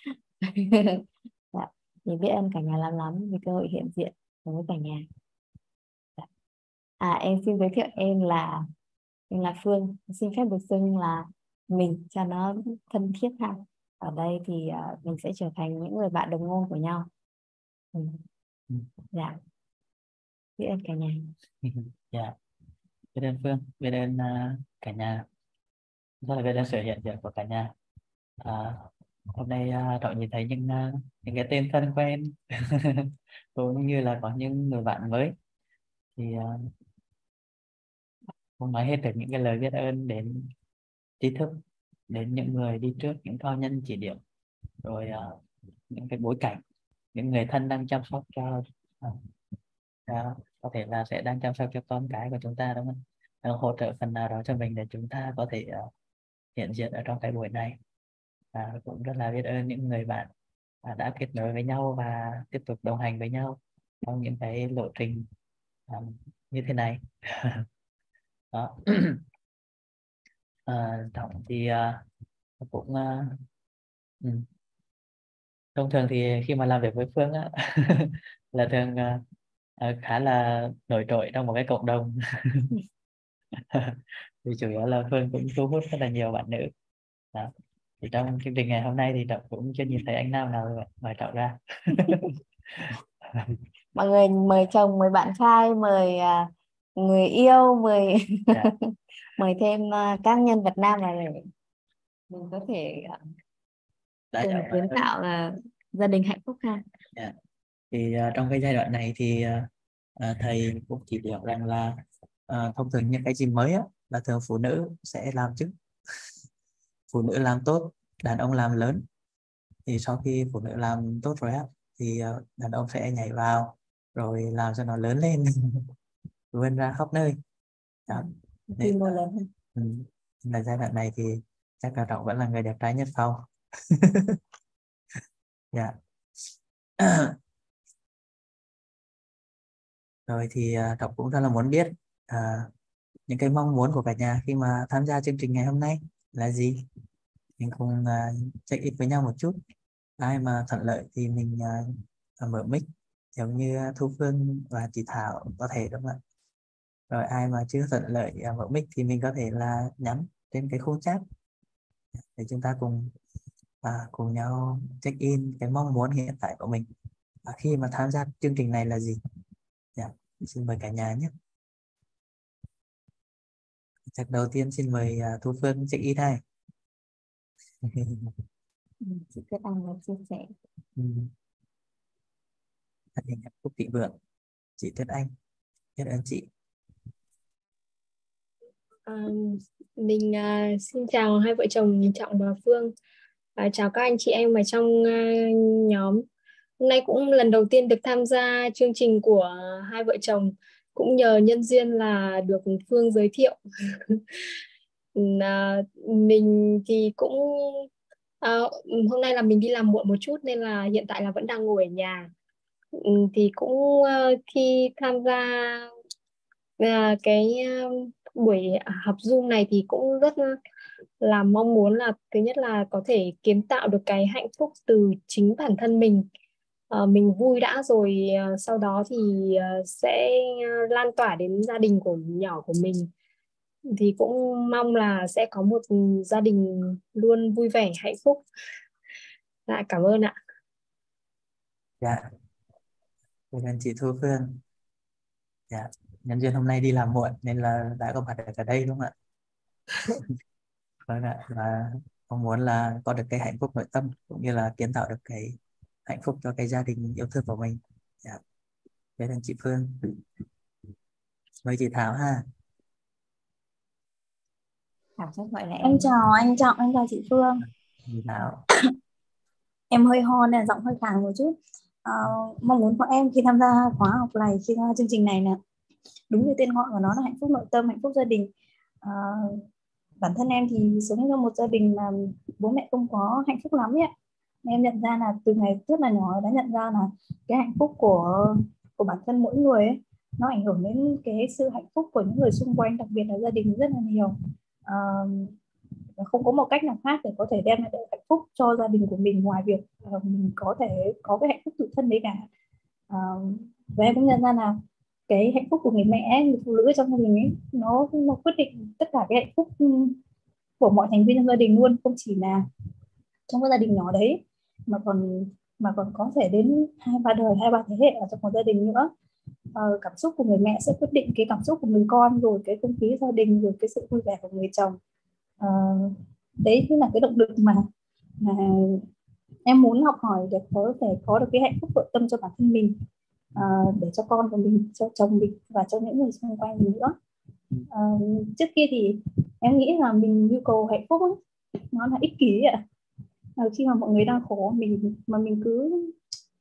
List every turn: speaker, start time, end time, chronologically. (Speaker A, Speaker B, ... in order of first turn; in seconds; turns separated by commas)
Speaker A: 0.4-5.1, Speaker A: 7.0-8.7, Speaker A: 9.3-17.1, Speaker A: 17.9-18.2, Speaker A: 19.1-19.4, Speaker A: 20.6-21.3, Speaker B: 21.6-22.4, Speaker B: 23.1-25.2, Speaker B: 26.2-27.7, Speaker B: 28.4-35.4, Speaker B: 36.2-36.6, Speaker B: 38.6-40.5, Speaker B: 41.2-44.2, Speaker B: 44.8-46.6, Speaker B: 47.1-49.2, Speaker B: 50.1-55.9, Speaker B: 56.6-57.8, Speaker B: 58.5-60.3, Speaker B: 60.8-65.3, Speaker B: 65.9-67.7, Speaker B: 68.5-69.2, Speaker B: 70.7-72.0, Speaker B: 72.6-73.4, Speaker B: 74.2-74.5, Speaker B: 75.8-79.2, Speaker B: 79.8-82.7, Speaker B: 83.5-86.7, Speaker B: 87.3-93.6, Speaker A: 94.0-101.5, Speaker A: 102.3-103.2, Speaker B: 104.3-105.0, Speaker A: 104.4-106.8, Speaker B: 107.9-112.0, Speaker B: 112.5-115.7, Speaker B: 117.1-119.0, Speaker B: 119.9-125.9, Speaker B: 126.5-127.4, Speaker A: 128.1-129.5, Speaker B: 128.8-129.2, Speaker B: 129.8-134.4, Speaker B: 137.0-137.4, Speaker B: 140.3-142.7, Speaker B: 143.3-146.8, Speaker B: 147.6-149.6, Speaker B: 150.2-156.2, Speaker B: 157.1-161.2, Speaker B: 162.2-163.1, Speaker B: 163.8-166.9, Speaker B: 167.4-169.2, Speaker B: 170.0-171.3, Speaker B: 174.1-176.4, Speaker B: 177.8-178.3, Speaker A: 179.0-180.5, Speaker B: 181.0-181.3, Speaker B: 183.2-184.2, Speaker B: 184.8-185.3, Speaker B: 186.0-186.5, Speaker C: 189.1-192.9, Speaker C: 193.6-196.2, Speaker C: 196.8-204.2, Speaker C: 205.2-207.9, Speaker C: 208.4-212.3, Speaker C: 212.9-215.9, Speaker C: 216.8-220.6, Speaker C: 221.2-226.3, Speaker C: 226.9-233.1, Speaker C: 233.9-238.4, Speaker C: 239.7-240.4, Speaker B: 242.0-242.3, Speaker B: 243.5-244.6, Speaker B: 245.7-249.1, Speaker B: 250.1-250.3, Speaker B: 251.1-258.4, Speaker B: 259.2-260.2, Speaker B: 261.6-262.4, Speaker A: 265.2-266.1, Speaker D: 265.8-267.6, Speaker B: 268.1-268.6, Speaker D: 269.9-271.5, Speaker D: 272.1-275.6, Speaker D: 276.3-278.5, Speaker D: 279.0-279.6, Speaker D: 280.2-284.1, Speaker D: 284.6-295.6, Speaker D: 296.2-302.5, Speaker D: 303.1-310.2, Speaker D: 310.8-312.7, Speaker D: 313.5-319.1, Speaker D: 319.8-325.0, Speaker D: 325.6-327.9, Speaker D: 328.4-329.1, Speaker D: 329.7-333.0, Speaker D: 333.6-337.2, Speaker D: 337.9-341.4, Speaker D: 341.9-342.8, Speaker D: 343.6-346.1